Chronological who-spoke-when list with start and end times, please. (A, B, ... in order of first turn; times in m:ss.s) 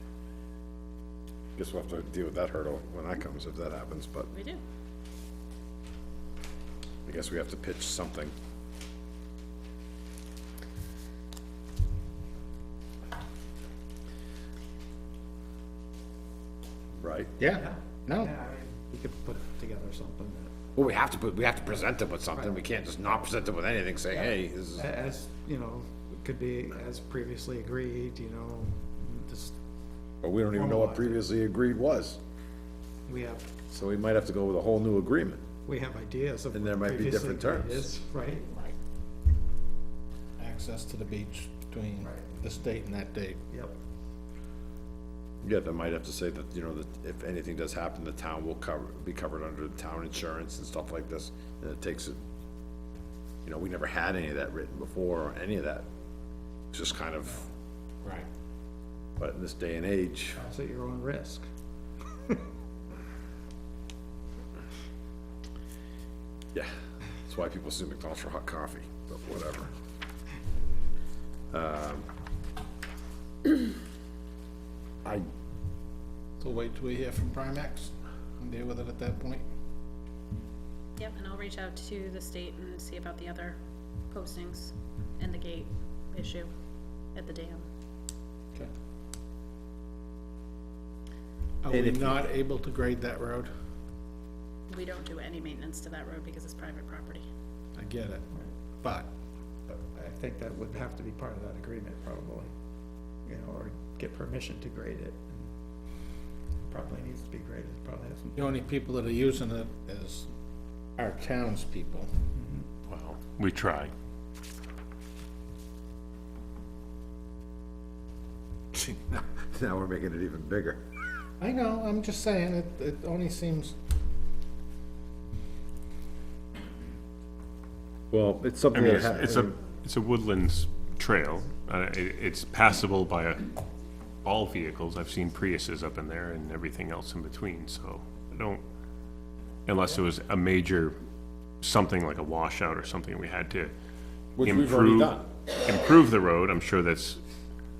0:01.6-0:04.3 A
0:04.3-0:04.6 B
0:07.0-0:08.3 A
0:17.0-0:17.3 A
0:17.4-0:18.3 C
0:17.6-0:20.5 D
0:20.7-0:24.9 A
0:24.1-0:29.6 D
0:30.2-0:32.2 A
0:30.5-0:31.2 D
0:33.1-0:33.5 D
0:33.7-0:35.4 A
0:35.6-0:38.5 D
0:36.5-0:37.9 A
0:40.4-0:43.4 C
0:42.0-0:42.3 D
0:43.5-0:43.8 D
0:45.4-0:52.2 A
0:53.4-0:55.9 A
0:56.7-0:57.5 A
0:59.2-1:00.4 A
1:00.3-1:01.5 D
1:07.2-1:09.7 A
1:11.5-1:12.1 A
1:16.4-1:19.4 C
1:21.0-1:23.6 B
1:24.1-1:26.5 B
1:27.1-1:27.6 B
1:31.6-1:33.5 C
1:31.7-1:32.3 A
1:34.7-1:37.2 B
1:37.7-1:38.3 C
1:38.8-1:39.1 C
1:39.7-1:42.5 D
1:43.2-1:45.4 D
1:46.6-1:48.4 D
1:48.3-1:50.3 C
1:51.0-1:52.1 C
1:52.3-1:52.6 D
1:52.9-1:53.9 E
1:58.7-2:00.8 A
2:01.4-2:03.8 C
2:08.1-2:09.6 A
2:08.7-2:13.5 E
2:14.2-2:18.6 E
2:19.6-2:20.9 E
2:21.6-2:23.7 E
2:24.4-2:25.3 A
2:24.4-2:27.2 E